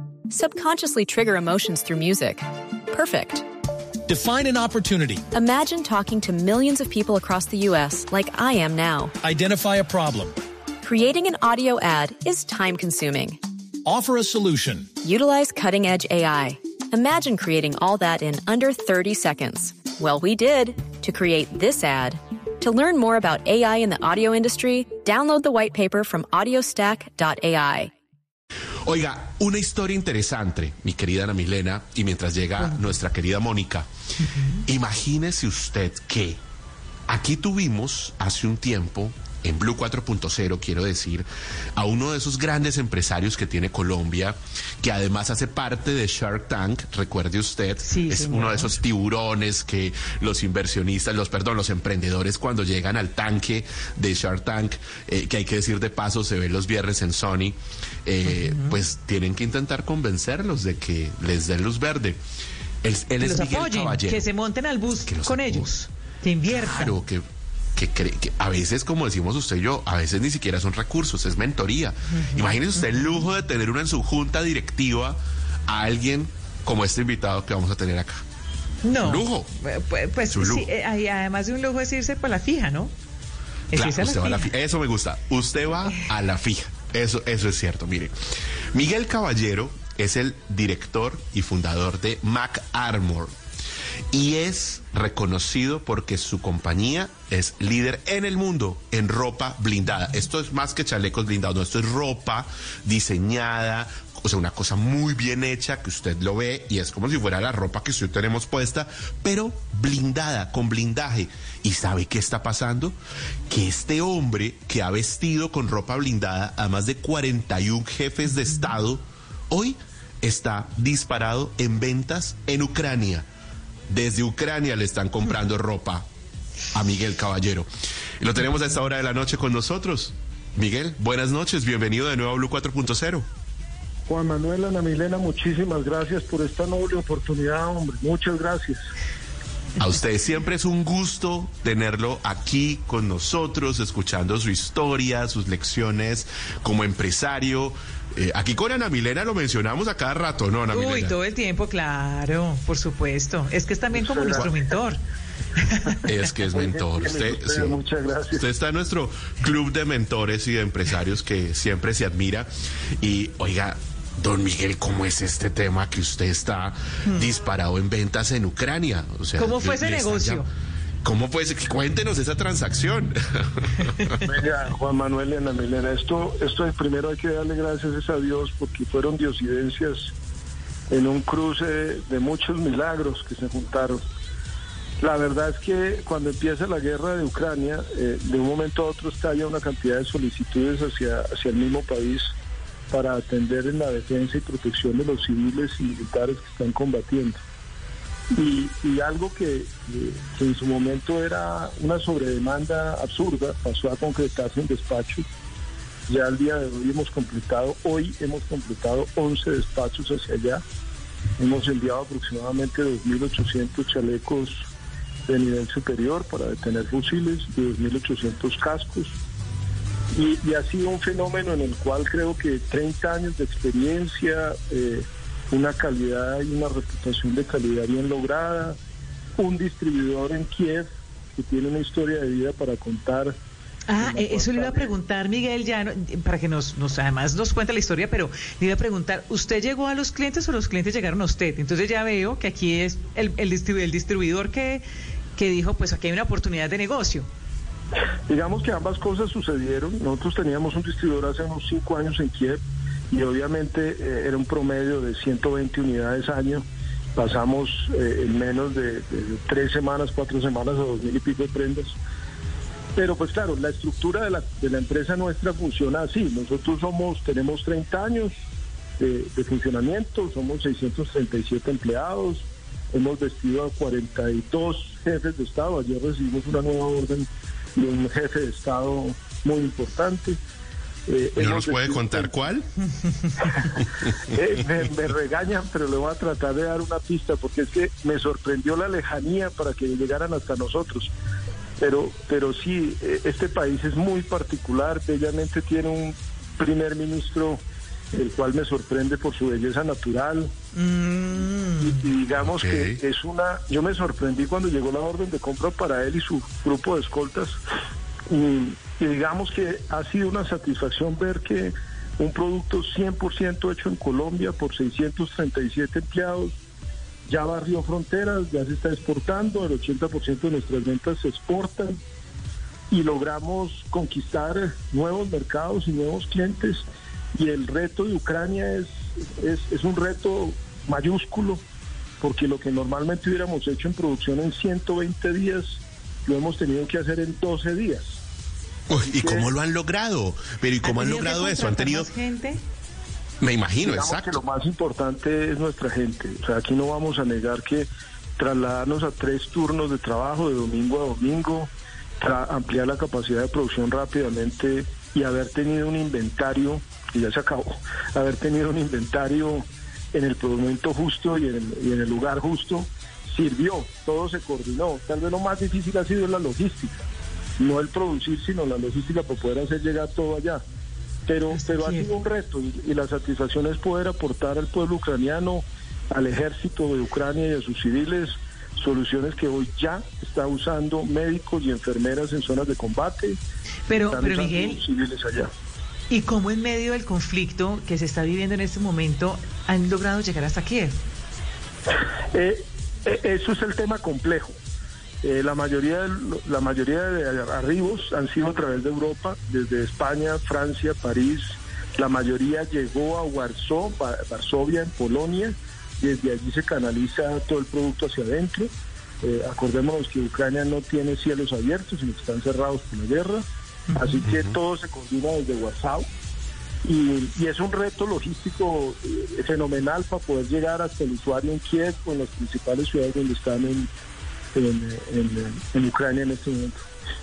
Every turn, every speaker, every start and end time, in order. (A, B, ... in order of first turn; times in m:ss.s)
0:00.3-0:03.4 A
0:04.0-0:05.2 B
0:05.3-0:09.1 A
0:09.2-0:10.3 B
0:10.8-0:13.4 A
0:13.8-0:14.9 B
0:15.0-0:27.9 A
0:28.8-0:33.9 C
0:34.2-0:34.6 D
0:34.6-0:36.4 C
0:37.1-0:41.2 C
0:41.8-1:02.2 C
0:47.8-0:48.7 D
0:58.4-0:58.7 D
1:02.8-1:04.2 C
1:03.2-1:06.9 D
1:05.0-1:05.7 C
1:06.5-1:07.2 C
1:07.8-1:18.2 C
1:12.2-1:12.5 D
1:18.8-1:22.9 D
1:19.0-1:19.5 C
1:20.3-1:20.7 C
1:23.7-1:24.5 D
1:23.7-1:28.1 C
1:28.7-1:33.4 C
1:34.1-1:53.0 C
1:53.5-2:03.2 C
2:03.9-2:06.0 C
2:06.7-2:07.7 C
2:08.2-2:13.3 C
2:14.1-2:18.8 E
2:19.8-2:31.1 C
2:30.7-2:35.0 D
2:33.9-2:34.5 E
2:35.6-2:36.0 D
2:36.0-2:37.8 C
2:36.5-2:38.4 E
2:38.3-2:50.4 C
2:49.4-2:50.5 D
2:51.0-2:54.2 C
2:54.2-3:00.1 E
3:00.9-3:04.0 E
3:05.0-3:12.3 E
3:12.9-3:17.4 E
3:18.3-3:25.2 E
3:26.1-3:30.6 E
3:31.4-3:34.7 E
3:35.3-3:39.2 E
3:40.1-3:48.8 E
3:49.4-3:53.4 E
3:53.9-4:04.8 D
3:54.0-3:54.9 E
4:05.4-4:07.3 D
4:08.3-4:22.0 E
4:23.0-4:28.4 E
4:29.0-4:40.4 E
4:41.1-4:42.3 E
4:41.4-4:42.7 C
4:44.3-4:51.1 E
4:51.8-4:57.6 E
4:58.1-5:00.5 E
5:00.7-5:02.1 D
5:01.8-5:07.5 E
5:02.4-5:03.0 C
5:08.3-5:16.6 E
5:17.3-5:22.0 E
5:22.9-5:31.6 E
5:32.2-5:38.2 E
5:38.9-5:42.1 C
5:39.0-5:39.5 E
5:40.8-5:42.6 D
5:43.4-5:44.4 C
5:43.8-6:07.1 E
6:07.6-6:10.6 E
6:11.3-6:23.4 E
6:11.6-6:12.1 D
6:23.9-6:24.8 D
6:23.9-6:25.5 E
6:26.1-6:30.9 D
6:32.3-6:34.5 E
6:35.2-6:48.7 E
6:49.2-6:56.1 E
6:53.9-6:54.2 D
6:54.2-6:54.5 C
6:56.8-7:03.9 E
7:04.5-7:06.8 E